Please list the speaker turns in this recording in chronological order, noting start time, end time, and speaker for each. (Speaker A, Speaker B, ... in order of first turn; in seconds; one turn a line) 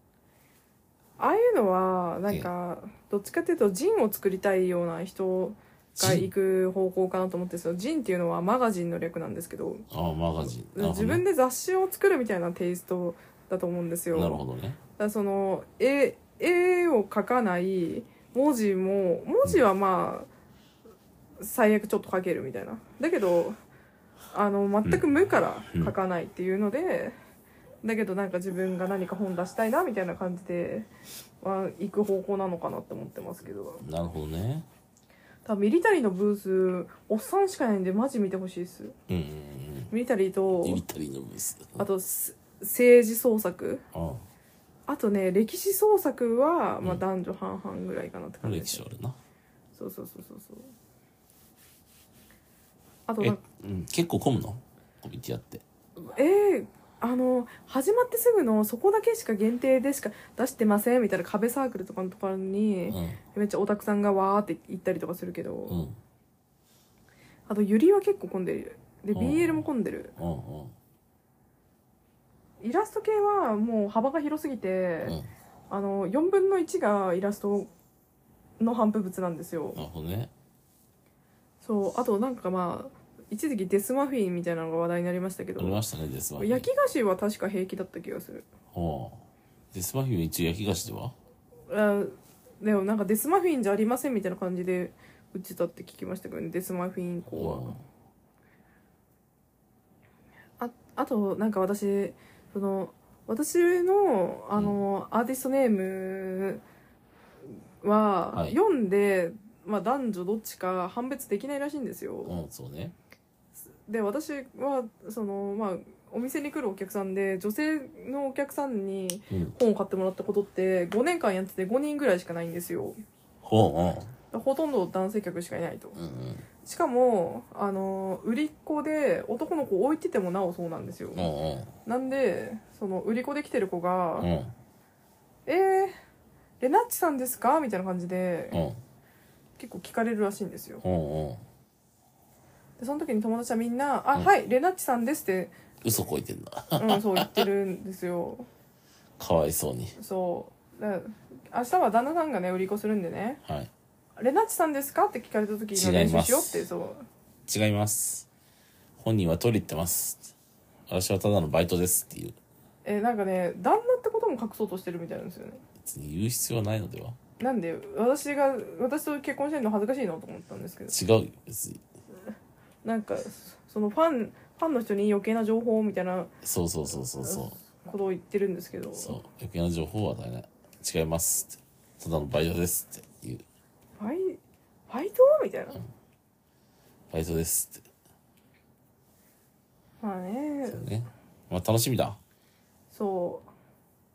Speaker A: 1.2-9.8
Speaker B: 6.0-6.3
Speaker B: 9.9-11.2
Speaker A: 10.6-14.4
Speaker B: 14.1-14.8
Speaker A: 15.0-20.3
Speaker A: 21.4-23.6
Speaker A: 24.3-27.1
Speaker A: 27.8-30.9
Speaker A: 31.4-33.8
Speaker B: 33.8-34.6
Speaker A: 35.4-38.9
Speaker B: 39.1-39.9
Speaker A: 39.9-40.8
Speaker B: 40.6-41.8
Speaker A: 41.8-43.8
Speaker B: 43.9-44.2
Speaker A: 44.9-48.8
Speaker B: 48.4-49.2
Speaker A: 49.8-50.7
Speaker A: 53.1-53.4
Speaker B: 53.2-55.6
Speaker A: 56.0-65.8
Speaker B: 62.9-63.2
Speaker B: 65.7-66.0
Speaker A: 67.5-70.1
Speaker B: 69.1-70.7
Speaker A: 72.6-75.2
Speaker B: 75.0-75.3
Speaker A: 75.7-77.7
Speaker A: 78.6-79.8
Speaker B: 79.7-80.3
Speaker A: 81.6-85.8
Speaker B: 85.6-86.7
Speaker A: 86.4-88.5
Speaker B: 88.7-91.1
Speaker A: 91.7-97.7
Speaker B: 97.3-97.8
Speaker A: 100.6-106.6
Speaker B: 104.5-104.8
Speaker A: 107.8-112.3
Speaker B: 108.3-108.6
Speaker B: 112.2-112.9
Speaker A: 113.8-123.0
Speaker B: 119.3-119.5
Speaker B: 123.4-124.1
Speaker A: 124.3-126.0
Speaker B: 126.0-126.4
Speaker A: 126.6-131.3
Speaker B: 131.1-131.7
Speaker A: 131.8-134.3
Speaker B: 134.2-134.5
Speaker A: 135.4-135.9
Speaker A: 136.6-138.6
Speaker B: 138.5-138.8
Speaker A: 139.6-140.8
Speaker B: 140.8-141.4
Speaker A: 142.8-145.5
Speaker B: 145.8-147.4
Speaker A: 146.8-148.4
Speaker B: 149.2-149.9
Speaker A: 150.0-153.4
Speaker B: 153.4-153.7
Speaker A: 154.2-157.0
Speaker B: 155.7-156.7
Speaker B: 157.5-158.3
Speaker B: 159.0-160.3
Speaker B: 160.9-162.4
Speaker A: 162.8-165.6
Speaker B: 165.8-167.2
Speaker A: 167.4-171.0
Speaker B: 170.9-171.8
Speaker A: 172.8-176.3
Speaker B: 176.4-177.6
Speaker A: 177.2-179.2
Speaker B: 179.0-183.4
Speaker A: 184.0-185.8
Speaker B: 187.1-187.8
Speaker A: 190.0-190.8
Speaker B: 190.7-192.2
Speaker A: 192.9-193.5